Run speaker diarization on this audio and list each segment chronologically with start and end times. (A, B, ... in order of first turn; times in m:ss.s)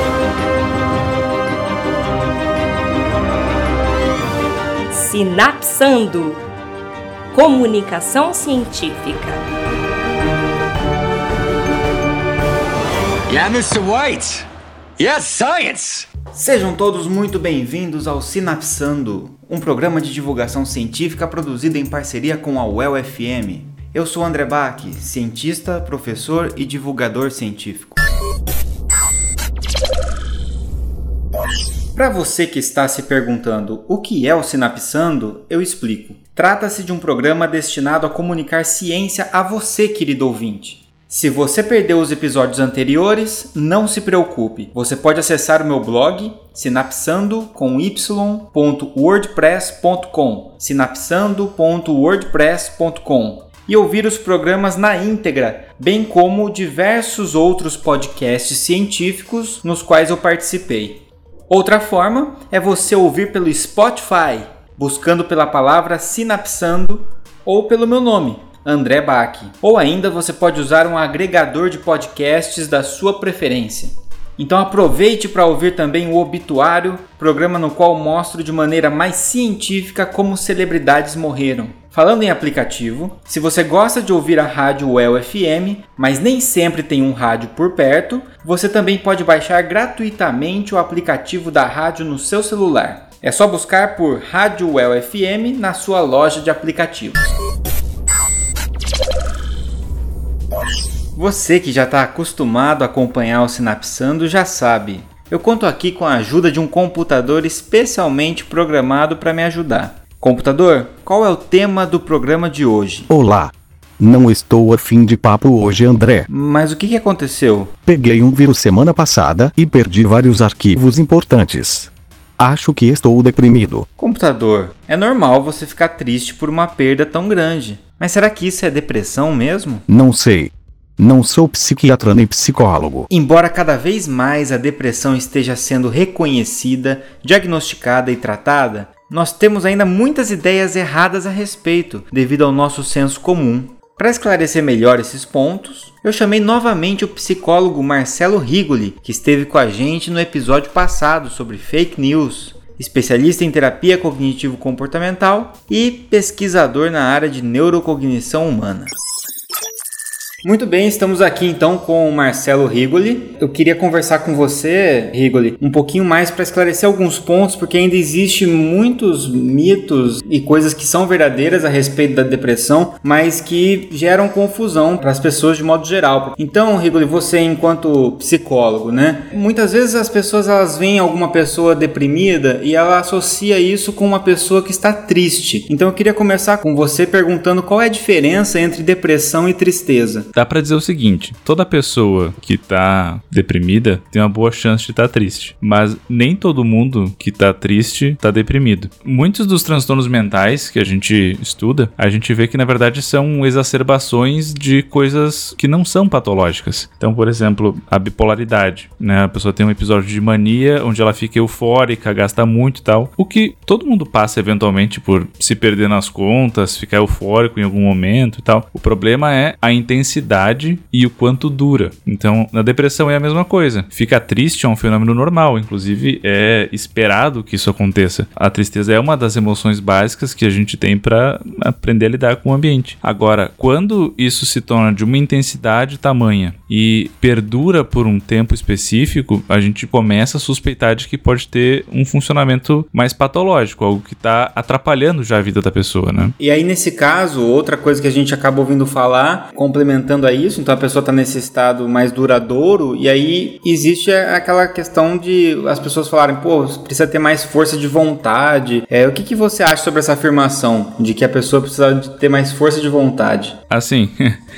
0:04.9-0:06.4 A
0:07.3-0:09.4 A
0:13.3-0:16.1 B
0:16.3-0:28.0 C
0:32.0-1:37.3 C
1:41.2-1:53.1 C
1:53.1-1:56.3 D
1:56.3-1:57.7 C
1:57.9-2:03.9 D
2:04.0-2:09.8 C
2:09.9-2:13.1 D
2:13.1-2:38.9 C
2:40.4-3:10.3 C
3:10.4-4:06.4 E
4:06.4-4:23.6 C
4:23.7-4:24.4 E